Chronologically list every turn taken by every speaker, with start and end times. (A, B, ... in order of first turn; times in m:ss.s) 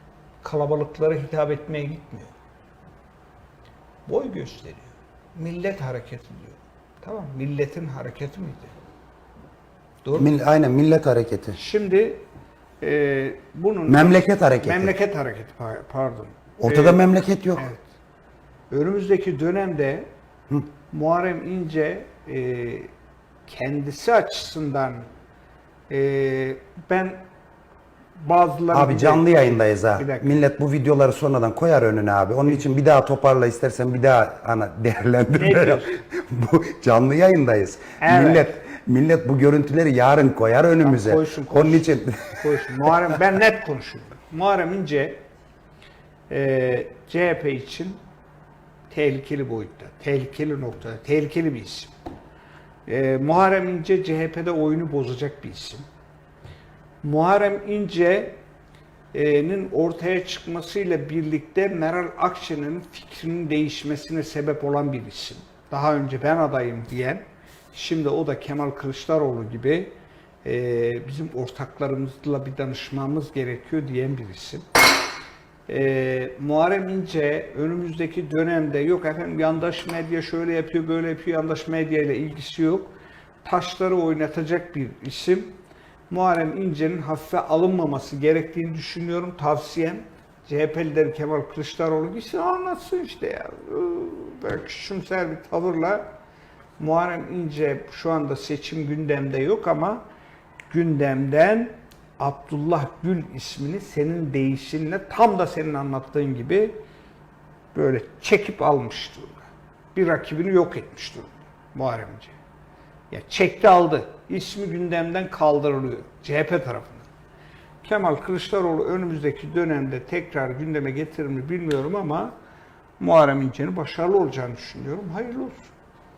0:00.4-0:02.3 A
0:04.1-0:08.7 A
0:10.2-0:11.6 B
0:11.6-0:12.2 A
0:12.8-0:17.8 A
0:13.9-0:14.9 B
0:16.6-0:17.6 B
0:18.7-0:20.1 A
0:20.9-0:22.9 A
0:23.5-0:25.1 A
0:25.9-0:27.2 A
0:28.2-0:30.4 A
0:28.7-0:42.4 B
0:35.4-0:36.0 A
0:38.0-0:38.5 A
0:40.8-0:45.2 A
0:46.3-0:48.0 A
0:48.9-0:51.9 A
0:52.9-0:55.8 A
0:57.0-0:58.4 A
0:59.1-1:09.9 A
1:10.4-1:14.6 A
1:15.7-1:25.6 A
1:26.1-1:36.1 A
1:36.8-1:40.0 A
1:40.7-1:46.8 A
1:47.7-1:52.4 A
1:53.1-1:57.1 A
1:57.8-2:02.3 A
2:03.0-2:05.7 A